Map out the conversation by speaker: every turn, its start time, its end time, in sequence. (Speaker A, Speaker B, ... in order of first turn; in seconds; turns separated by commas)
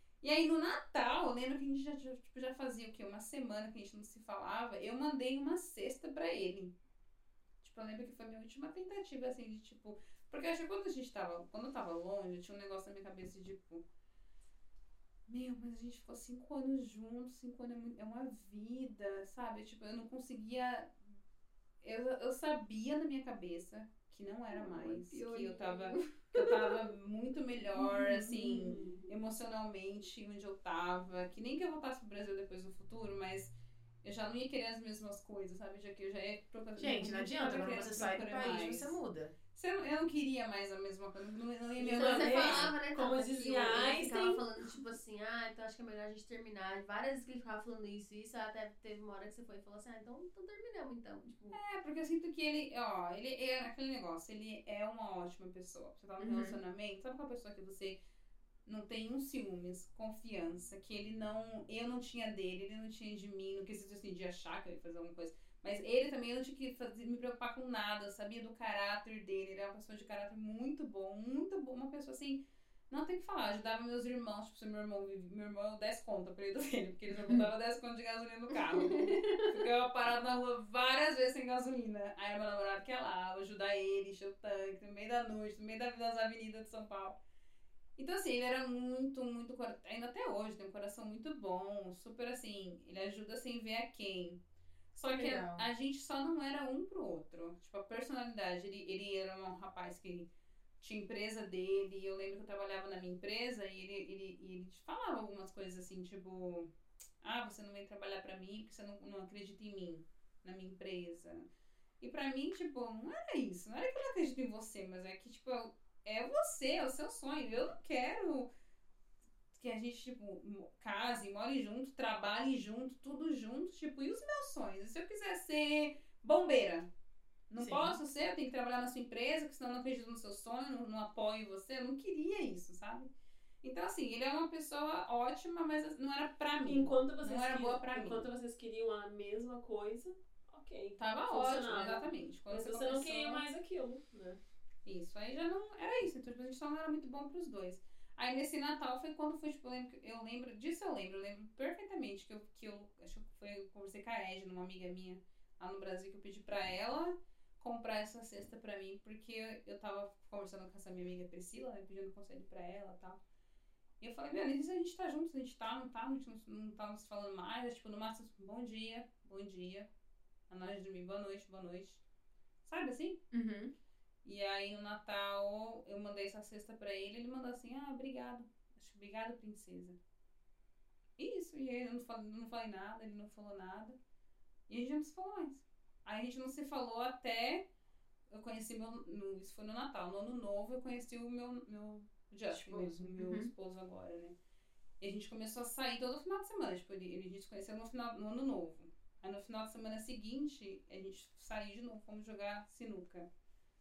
Speaker A: 0.2-6.8, Speaker A: 7.6-13.8, Speaker A: 15.3-21.2, Speaker A: 21.8-33.5, Speaker B: 24.5-26.8, Speaker C: 28.6-29.0, Speaker A: 34.0-39.0, Speaker D: 36.8-39.4, Speaker A: 39.5-42.7, Speaker C: 41.8-44.7, Speaker B: 41.9-51.6, Speaker A: 51.5-58.0, Speaker D: 56.2-56.6, Speaker A: 58.7-87.2, Speaker D: 77.1-77.5, Speaker B: 78.7-79.5, Speaker A: 88.0-94.4, Speaker A: 94.9-100.3, Speaker D: 95.1-95.7, Speaker A: 100.8-106.7, Speaker A: 107.2-111.5, Speaker A: 112.0-118.5, Speaker A: 119.5-126.9, Speaker A: 127.5-133.1, Speaker D: 127.6-128.0, Speaker A: 133.6-138.3, Speaker C: 136.7-144.4, Speaker A: 141.0-143.4, Speaker A: 144.8-163.2, Speaker A: 164.0-169.9, Speaker A: 170.5-172.0, Speaker A: 172.6-173.2, Speaker D: 173.3-173.7, Speaker A: 174.2-180.0, Speaker A: 181.2-184.0, Speaker A: 184.7-187.7, Speaker A: 188.3-194.4, Speaker D: 192.6-193.5, Speaker A: 195.0-203.3